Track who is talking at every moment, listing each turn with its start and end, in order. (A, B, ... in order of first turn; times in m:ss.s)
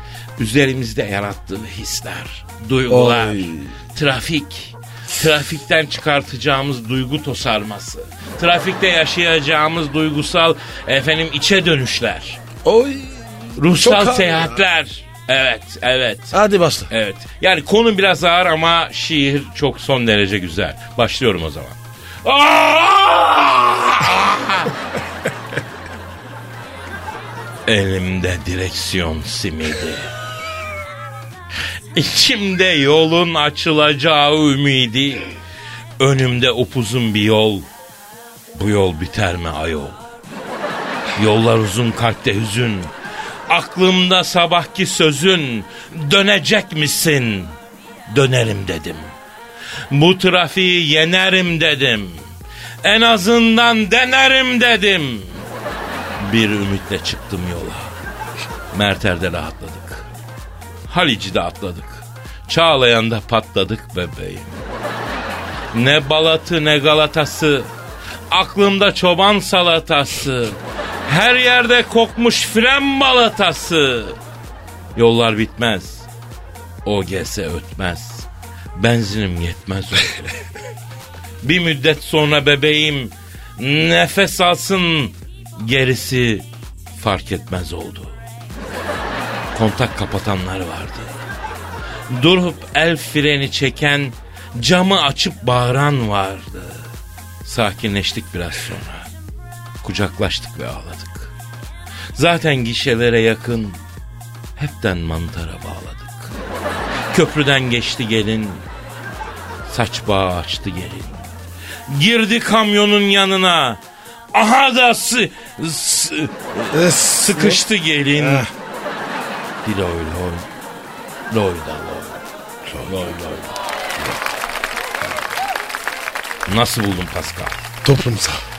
0:00.4-0:12.4 A
0:02.9-0:03.7 B
0:12.6-0:14.6 B
0:13.6-0:16.4 A
0:16.3-0:16.9 B
0:16.9-0:24.7 A
0:27.7-0:30.1 A
0:31.9-0:35.3 A
0:36.0-0:37.6 A
0:38.5-0:40.0 A
0:41.2-0:42.9 A
0:43.5-0:47.6 A
0:48.1-0:49.1 A
0:49.9-0:52.2 A
0:52.8-0:55.3 A
0:56.2-0:57.9 A
0:58.7-1:00.1 A
1:00.9-1:04.5 A
1:05.7-1:07.7 A
1:08.3-1:14.2 A
1:15.0-1:16.1 A
1:16.8-1:20.4 A
1:21.4-1:26.4 A
1:27.0-1:28.1 A
1:29.5-1:31.1 A
1:32.1-1:36.9 A
1:37.4-1:39.1 A
1:39.8-1:41.3 A
1:42.1-1:43.8 A
1:44.6-1:46.3 A
1:47.1-1:48.6 A
1:49.7-1:51.3 A
1:51.9-1:53.8 A
1:54.3-1:58.5 A
1:56.7-1:58.5 B
1:59.6-2:00.4 A
2:01.3-2:02.2 A
2:02.7-2:03.1 B
2:02.8-2:04.2 A
2:06.5-2:07.6 A
2:07.8-2:08.4 B